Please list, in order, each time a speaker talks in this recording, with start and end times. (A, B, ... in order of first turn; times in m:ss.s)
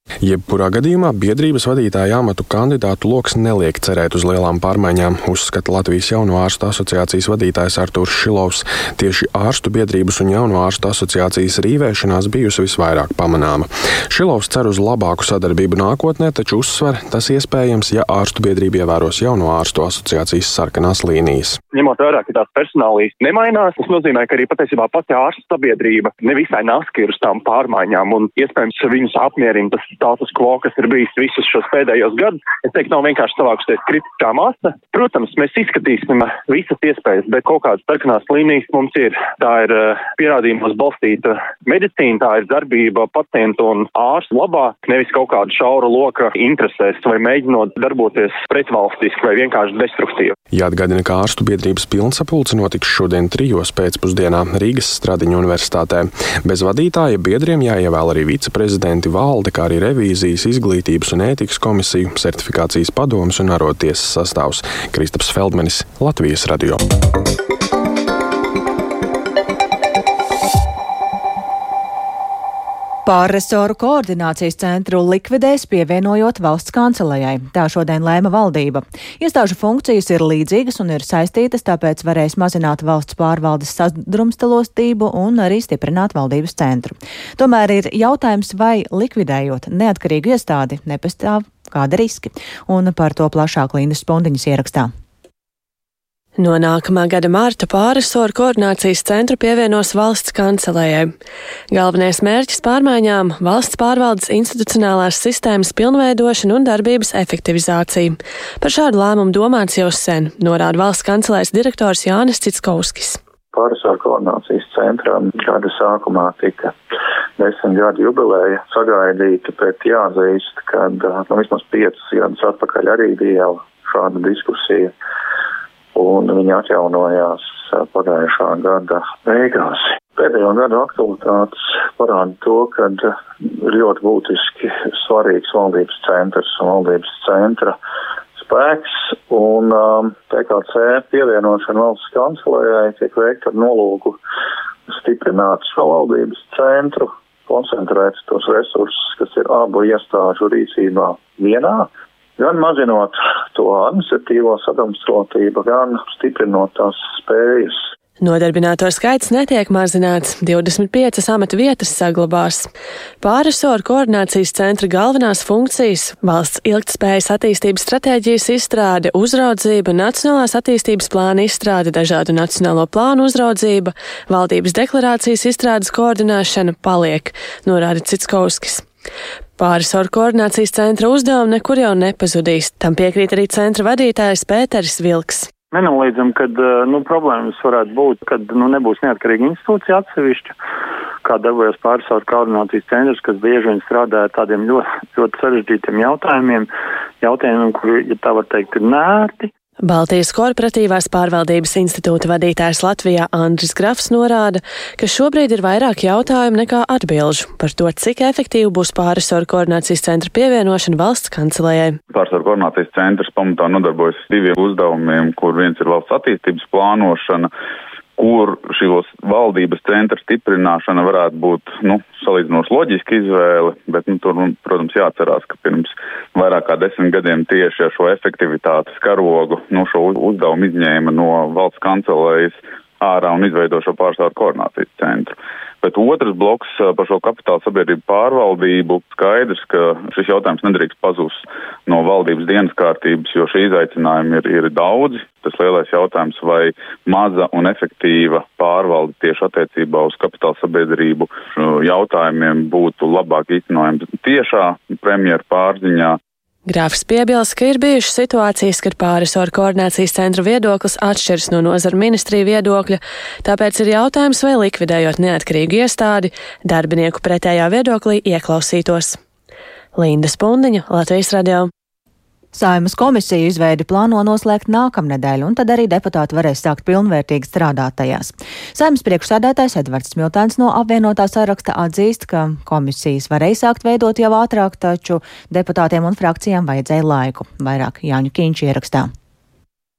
0:00.2-0:21.6 A
0:21.7-0:50.3 B
0:50.5-1:06.8 A
1:13.0-1:34.9 C
1:36.4-1:41.1 D
1:41.7-1:53.2 D
1:53.5-1:56.7 E
1:57.4-2:04.9 E
2:05.9-2:17.8 E
2:18.4-2:24.2 E
2:24.9-2:37.8 E
2:38.2-2:42.7 D
2:43.2-2:58.8 D
2:59.6-3:05.5 D
3:05.7-3:10.5 F
3:11.2-3:16.7 F
3:17.2-3:19.5 F
3:19.8-3:32.0 D
3:32.1-3:37.5 G
3:38.2-4:16.2 G
4:16.7-4:29.2 D
4:29.9-4:31.7 D
4:32.5-4:49.1 C